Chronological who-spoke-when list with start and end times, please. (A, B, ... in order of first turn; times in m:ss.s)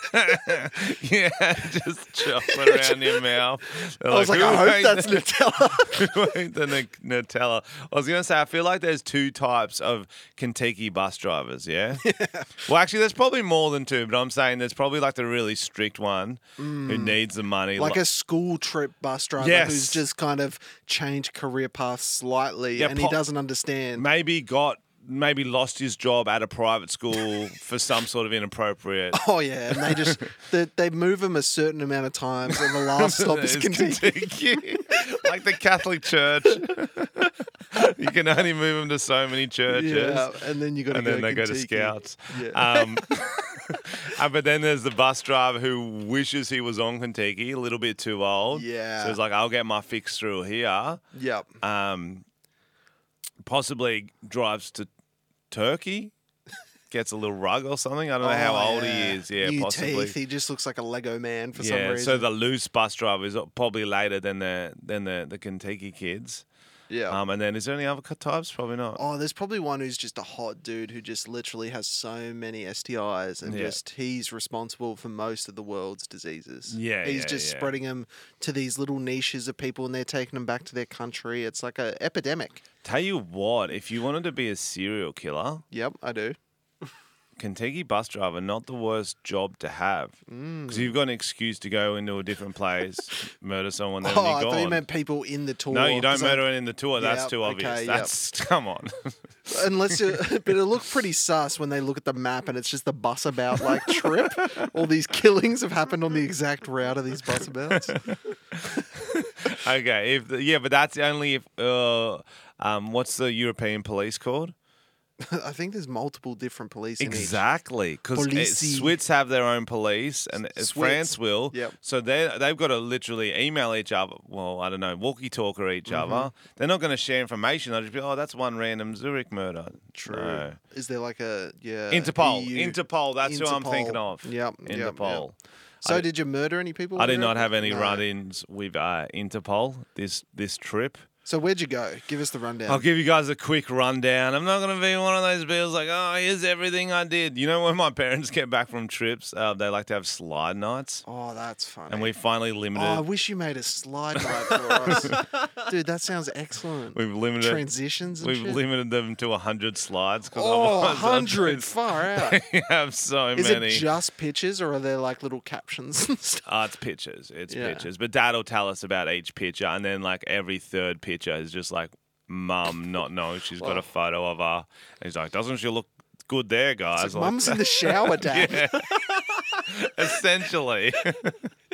0:00.1-0:12.0 A
0:02.4-0:03.2 B
0:04.1-0:06.1 B
0:12.0-0:12.6 B
0:12.6-0:18.0 A
0:16.6-0:17.2 B
0:17.7-0:24.0 B
0:19.4-0:20.0 A
0:22.7-0:23.2 A
0:24.0-0:30.3 A
0:29.1-0:35.0 B
0:32.5-0:40.3 A
0:39.7-0:43.0 B
0:40.9-0:51.0 A
0:48.5-0:49.2 B
0:51.1-0:51.6 B
0:51.6-0:52.2 A
0:53.4-0:54.9 A
0:55.5-0:56.1 A
0:56.9-1:00.2 A
0:58.2-1:02.3 B
1:01.5-1:06.4 A
1:06.9-1:07.2 B
1:07.1-1:09.0 A
1:09.0-1:22.6 B
1:13.4-1:13.8 A
1:16.7-1:17.7 A
1:22.8-1:25.6 A
1:25.7-1:26.4 B
1:27.4-1:34.8 A
1:30.3-1:31.0 B
1:34.0-1:36.4 B
1:35.7-1:39.1 A
1:37.0-1:38.1 B
1:39.5-1:48.0 B
1:43.8-1:44.6 A
1:47.7-1:54.5 A
1:55.2-1:57.4 B
1:57.0-2:10.6 A
1:58.1-1:59.0 B
2:00.6-2:01.8 B
2:05.9-2:06.3 B
2:09.9-2:15.3 B
2:11.9-2:16.1 A
2:15.8-2:18.0 B
2:17.0-2:21.0 A
2:21.2-2:22.8 B
2:22.7-2:31.0 A
2:31.0-2:32.1 B
2:31.9-2:33.0 A
2:32.7-2:38.6 B
2:34.2-2:35.2 A
2:36.9-2:43.9 A
2:40.3-2:42.4 B
2:43.3-2:46.4 B
2:46.4-3:01.5 A
2:47.5-2:47.8 B
2:53.6-2:53.9 B
2:57.0-2:58.9 B